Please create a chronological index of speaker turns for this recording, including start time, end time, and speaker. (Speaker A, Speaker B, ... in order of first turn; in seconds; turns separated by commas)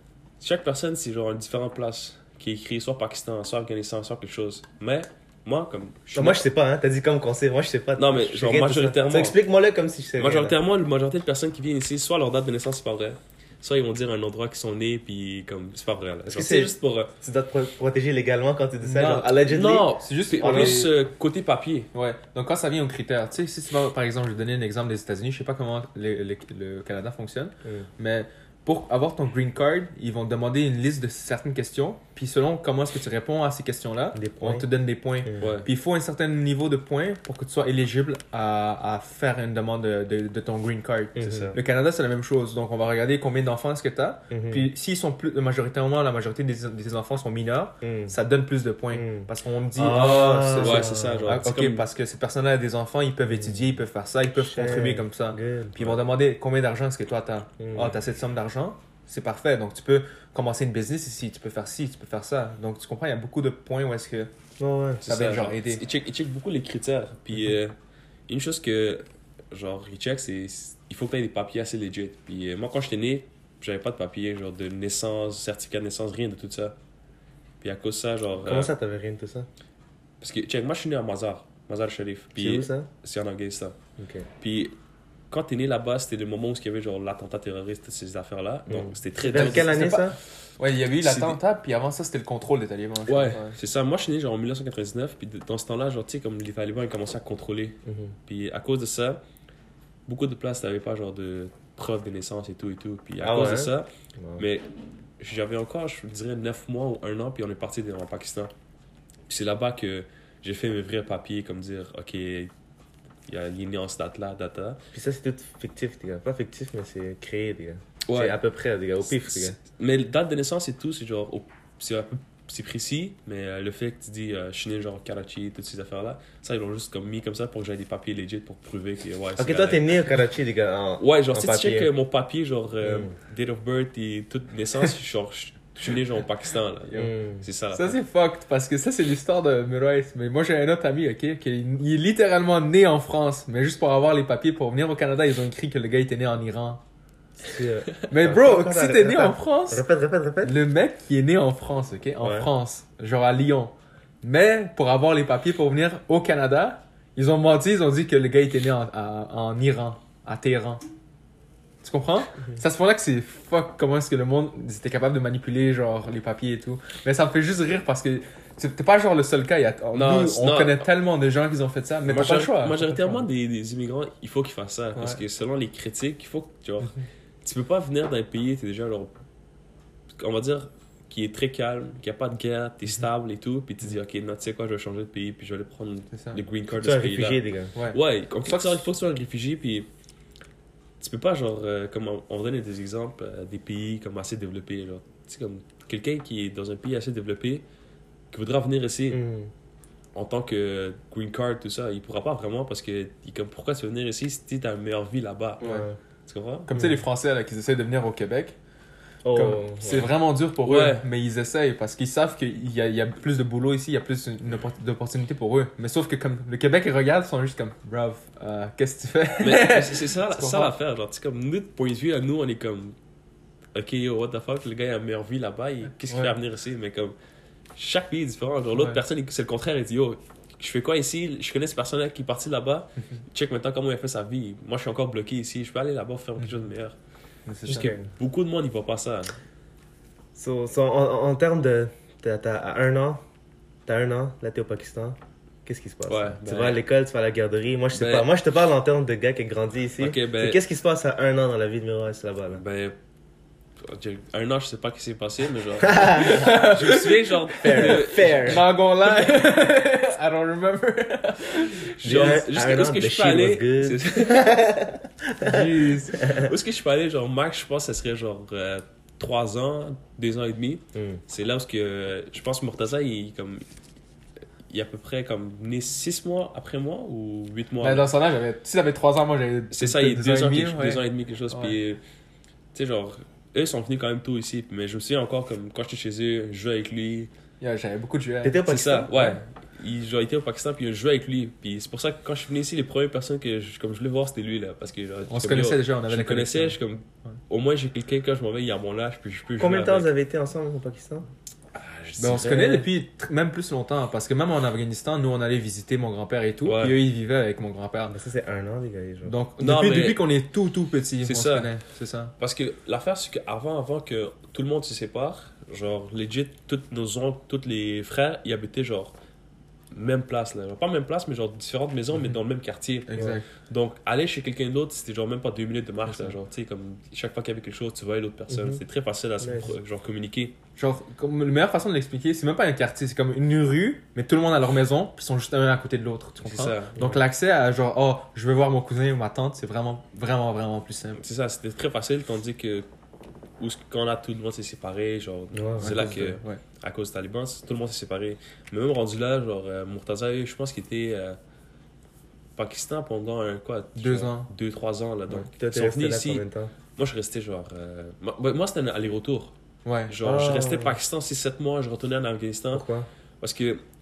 Speaker A: 0.4-6.4, Speaker B: 6.2-10.6, Speaker A: 8.0-9.4, Speaker A: 10.2-17.1, Speaker B: 16.3-20.9, Speaker C: 18.8-19.4, Speaker A: 19.5-21.9, Speaker C: 19.9-20.9, Speaker C: 21.9-64.3, Speaker B: 27.6-27.9, Speaker B: 34.1-34.7, Speaker B: 35.2-35.5, Speaker A: 35.4-35.7, Speaker B: 41.2-41.6, Speaker A: 41.2-41.5, Speaker B: 44.3-44.7, Speaker B: 47.8-48.1, Speaker B: 48.9-51.4, Speaker A: 49.9-51.8, Speaker B: 54.4-56.0, Speaker B: 57.6-58.0, Speaker B: 64.6-65.0, Speaker A: 65.1-67.8, Speaker C: 65.1-65.8, Speaker A: 68.3-76.8, Speaker A: 77.6-78.7, Speaker B: 78.4-79.5, Speaker A: 80.2-83.8, Speaker B: 82.4-82.9, Speaker B: 84.0-84.3, Speaker A: 84.4-84.8, Speaker A: 85.3-90.1, Speaker B: 88.7-90.2, Speaker C: 89.3-90.0, Speaker C: 90.6-93.6, Speaker A: 91.0-91.4, Speaker A: 93.1-99.2, Speaker B: 97.8-98.1, Speaker A: 100.1-104.6, Speaker B: 103.2-104.5, Speaker A: 105.2-108.5, Speaker A: 109.3-112.5, Speaker A: 113.3-114.8, Speaker B: 114.9-119.6, Speaker A: 118.1-118.4, Speaker A: 119.1-129.8, Speaker B: 129.4-131.9, Speaker A: 131.0-137.9, Speaker B: 132.8-133.1, Speaker B: 136.9-137.4, Speaker C: 137.7-146.8, Speaker B: 147.4-150.6, Speaker C: 148.1-149.8, Speaker C: 150.4-160.8, Speaker C: 161.8-173.3, Speaker A: 169.9-170.9, Speaker A: 172.1-176.9, Speaker C: 174.9-175.2, Speaker A: 177.4-179.2, Speaker A: 180.2-189.9, Speaker C: 186.1-186.4, Speaker B: 186.7-187.7, Speaker A: 191.0-197.6, Speaker A: 198.3-199.2, Speaker B: 199.1-199.5, Speaker A: 200.2-206.7, Speaker B: 205.6-206.0, Speaker C: 206.7-208.6, Speaker B: 206.7-207.0, Speaker B: 209.2-210.1, Speaker C: 209.3-220.7, Speaker A: 210.7-211.1, Speaker A: 219.4-223.0, Speaker A: 223.7-227.1, Speaker C: 226.1-226.3, Speaker A: 227.8-237.0, Speaker C: 228.7-229.0, Speaker C: 237.5-237.9, Speaker A: 237.7-239.4, Speaker B: 237.7-238.1, Speaker B: 240.3-243.2, Speaker B: 243.9-252.6, Speaker A: 246.1-246.8, Speaker A: 247.9-248.3, Speaker A: 250.0-250.6, Speaker A: 252.5-253.0, Speaker A: 253.8-258.5, Speaker B: 255.8-256.6, Speaker C: 256.2-262.0, Speaker B: 257.6-258.6, Speaker A: 262.0-264.5, Speaker B: 262.0-266.5, Speaker C: 265.4-266.2, Speaker A: 266.3-273.6, Speaker B: 270.9-271.2, Speaker A: 274.7-278.1, Speaker C: 277.8-281.8, Speaker A: 279.7-282.0, Speaker A: 282.7-287.3, Speaker C: 287.6-289.4, Speaker B: 288.4-289.1, Speaker A: 288.7-300.1, Speaker C: 295.3-296.8, Speaker B: 299.6-301.3, Speaker A: 301.7-302.9, Speaker C: 302.2-308.2, Speaker A: 306.6-307.0, Speaker B: 308.1-309.4, Speaker C: 309.2-312.3, Speaker A: 309.6-310.3, Speaker A: 311.2-311.7, Speaker A: 312.4-319.1, Speaker A: 319.9-330.6, Speaker C: 323.1-323.4, Speaker B: 328.5-328.8, Speaker B: 329.4-329.7, Speaker C: 330.8-341.2, Speaker A: 336.4-337.0, Speaker B: 337.0-337.2, Speaker A: 341.2-342.9, Speaker A: 343.6-351.4, Speaker B: 345.5-345.9, Speaker C: 345.8-346.6, Speaker A: 352.6-356.4, Speaker C: 354.0-354.5, Speaker B: 355.3-356.7, Speaker A: 357.0-359.5, Speaker C: 359.9-360.1, Speaker A: 360.1-362.9, Speaker B: 360.2-361.0, Speaker B: 362.7-363.1, Speaker A: 363.4-363.8